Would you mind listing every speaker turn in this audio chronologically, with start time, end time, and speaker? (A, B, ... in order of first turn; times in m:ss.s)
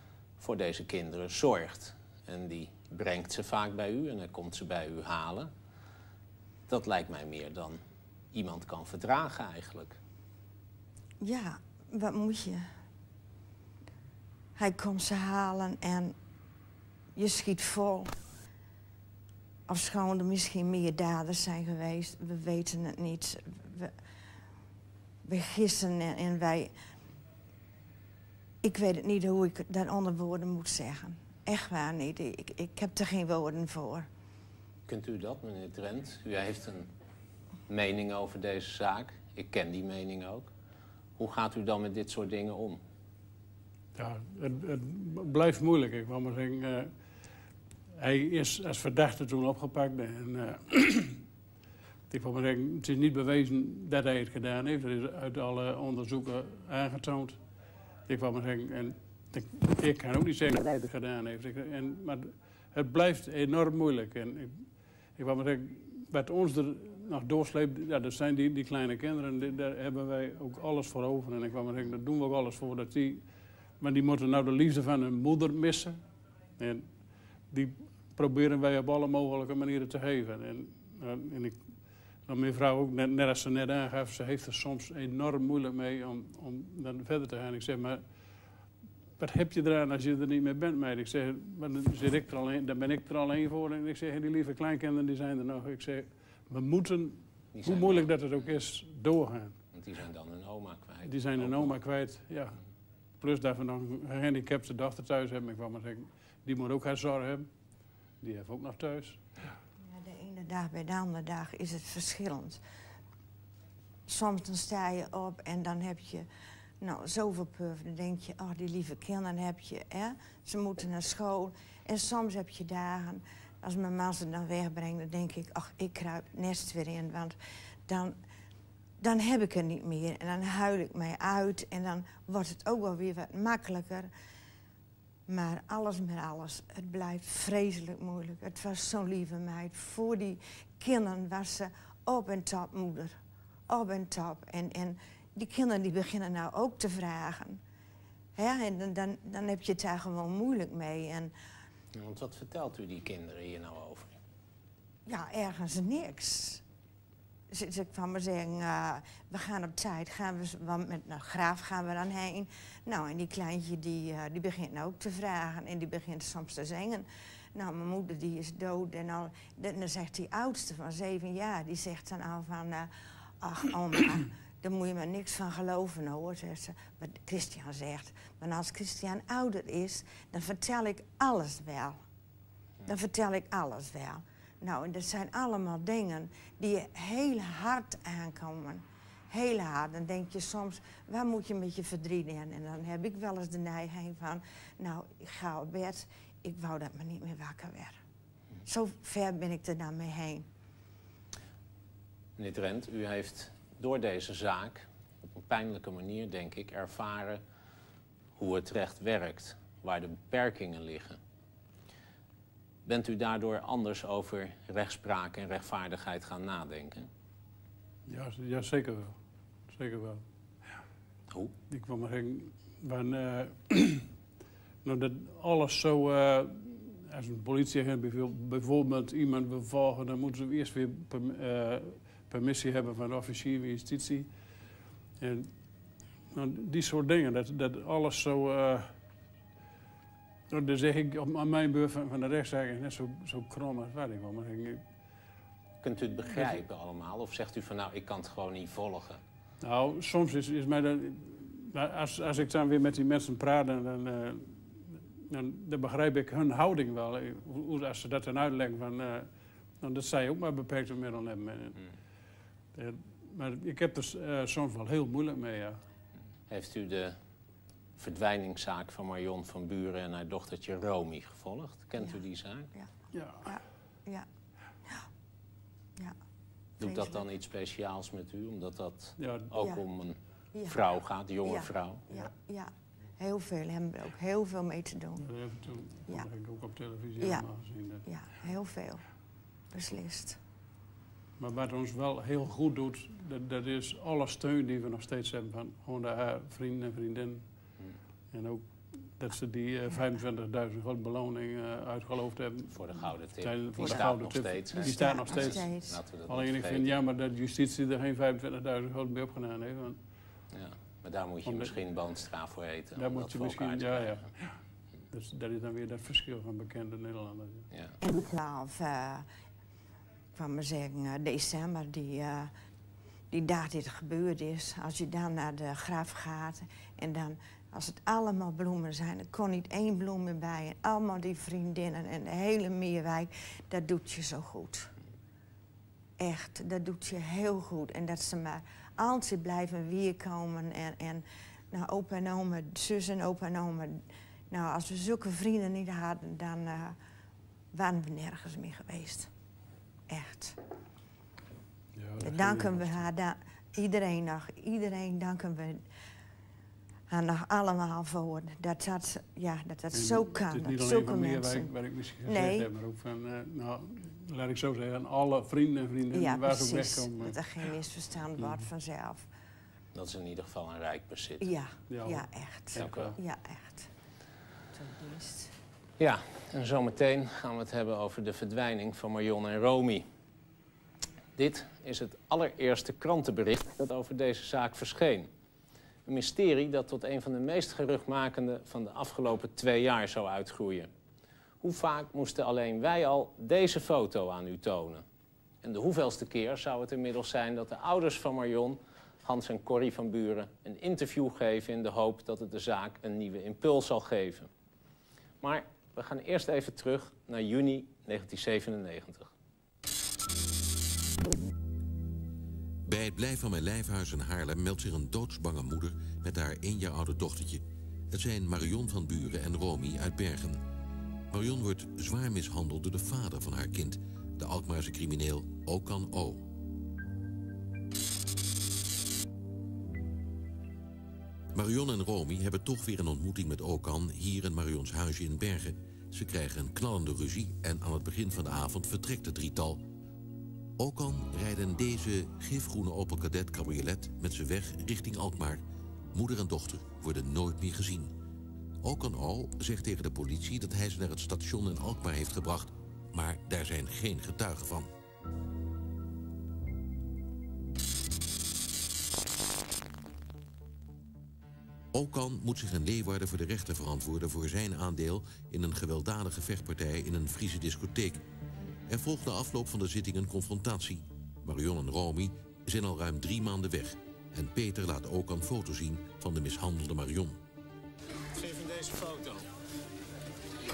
0:00.4-0:05.5 A
0:06.7-0:07.8 A
0:08.3-0:10.0 A
0:11.2-0:12.7 B
0:14.6-0:16.1 B
0:17.2-0:18.1 B
0:19.7-0:23.9 B
0:25.2-0:26.7 B
0:28.6-0:34.1 B
0:34.9-0:36.9 A
0:37.7-0:40.5 A
0:41.2-0:42.8 A
0:44.0-0:46.9 C
0:48.0-0:51.2 C
0:52.1-0:57.4 C
0:58.1-1:13.2 C
1:13.8-1:16.0 C
1:16.6-1:16.9 C
1:17.5-1:21.6 C
1:22.3-1:28.0 C
1:29.2-1:39.6 C
1:37.5-1:38.5 A
1:39.7-1:41.8 A
1:41.0-1:42.6 C
1:43.2-1:47.5 C
1:48.2-1:49.2 C
1:49.9-1:52.6 B
1:54.1-1:56.3 B
1:56.8-2:07.4 B
2:07.9-2:08.2 B
2:09.0-2:14.1 B
2:15.3-2:23.1 B
2:23.7-2:27.6 B
2:28.4-2:31.3 B
2:31.9-2:34.2 A
2:35.1-2:36.6 B
2:37.5-2:52.9 B
2:53.4-3:02.0 B
3:02.8-3:18.0 B
3:18.6-3:20.4 B
3:22.4-3:27.4 A
3:28.4-3:31.2 A
3:32.8-3:37.1 A
3:38.1-3:39.2 C
3:39.7-3:40.2 C
3:41.7-3:44.0 C
3:44.8-3:54.3 C
3:55.2-3:55.5 C
3:56.3-3:58.9 C
4:00.5-4:04.8 C
4:05.8-4:09.2 A
4:09.6-4:19.3 C
4:19.8-4:21.8 C
4:22.7-4:25.8 C
4:26.5-4:27.2 A
4:28.0-4:32.7 A
4:33.1-4:33.4 C
4:33.4-4:34.2 B
4:36.8-4:40.2 A
4:36.8-4:37.2 B
4:39.2-4:39.5 C
4:39.6-4:39.8 B
4:40.5-4:40.9 B
4:40.7-4:42.0 A
4:41.4-4:45.2 B
4:45.2-4:48.0 C
4:47.2-4:47.4 B
4:48.0-4:49.0 B
4:49.7-4:50.4 B
4:51.4-4:57.4 C
4:58.3-5:05.7 C
5:02.7-5:07.0 A
5:03.8-5:04.2 B
5:04.7-5:06.0 B
5:06.2-5:10.0 C
5:10.5-5:14.2 A
5:11.4-5:11.8 C
5:13.0-5:14.5 C
5:15.1-5:17.7 C
5:18.0-5:19.3 B
5:20.4-5:22.5 B
5:23.3-5:34.9 B
5:36.2-5:47.0 B
5:47.7-5:49.3 B
5:50.1-5:50.6 B
5:52.0-5:53.0 C
5:52.2-5:55.8 B
5:57.1-6:01.7 B
5:59.9-6:07.4 C
6:02.2-6:02.7 B
6:06.1-6:09.3 B
6:08.4-6:08.6 C
6:09.9-6:11.5 A
6:11.4-6:13.9 B
6:11.9-6:13.2 C
6:12.8-6:13.1 A
6:14.8-6:15.5 B
6:16.0-6:20.0 A
6:21.4-6:25.3 A
6:26.0-6:30.9 A
6:31.6-6:35.0 A
6:35.6-6:44.5 A
6:45.4-6:49.3 A
6:52.8-7:00.6 D
7:01.3-7:06.4 D
7:11.5-7:19.8 D
7:20.8-7:28.1 D
7:28.8-7:34.9 D
7:41.9-7:48.2 D
7:48.9-7:57.4 D
7:58.4-7:59.4 A